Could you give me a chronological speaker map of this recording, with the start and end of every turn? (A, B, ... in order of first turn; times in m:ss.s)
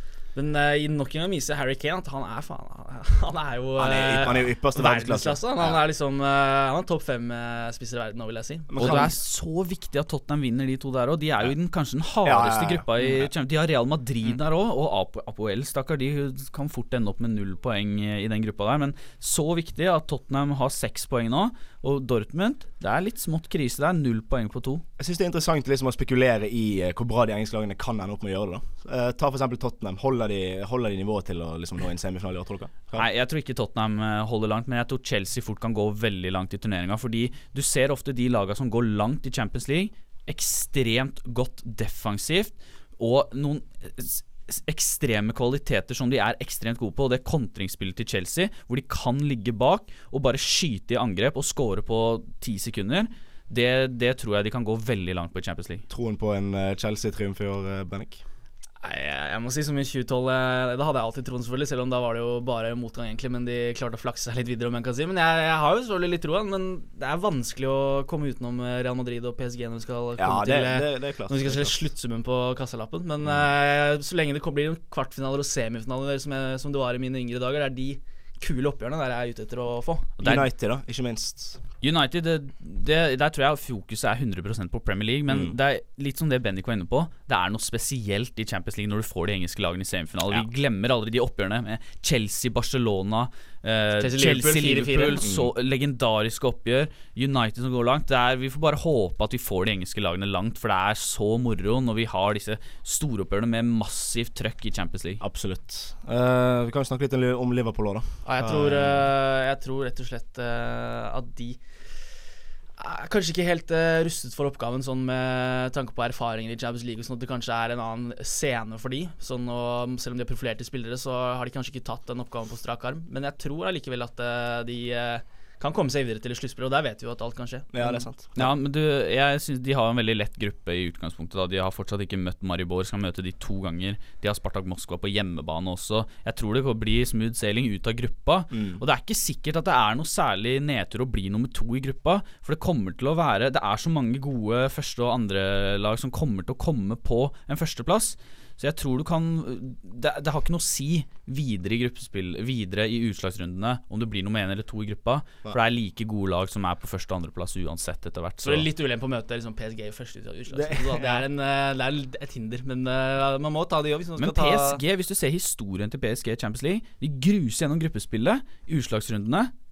0:00.3-0:09.1 A
0:03.8-0:05.8 B
0:08.7-0:09.1 B
0:08.8-0:24.8 C
0:12.2-0:13.3 B
0:25.0-0:33.0 B
0:32.9-0:55.8 C
0:55.9-0:58.2 B
0:58.8-1:20.1 A
1:10.2-1:11.8 B
1:20.2-1:21.6 B
1:21.8-1:45.2 C
1:25.3-1:25.5 B
1:34.0-1:35.2 A
1:35.2-1:35.5 B
1:45.2-1:49.1 B
1:48.2-1:51.6 A
1:52.8-2:08.0 A
2:07.7-2:08.5 B
2:08.4-2:38.6 C
2:18.5-2:18.8 B
2:38.4-2:44.8 A
2:40.5-2:41.2 B
2:44.2-2:49.5 C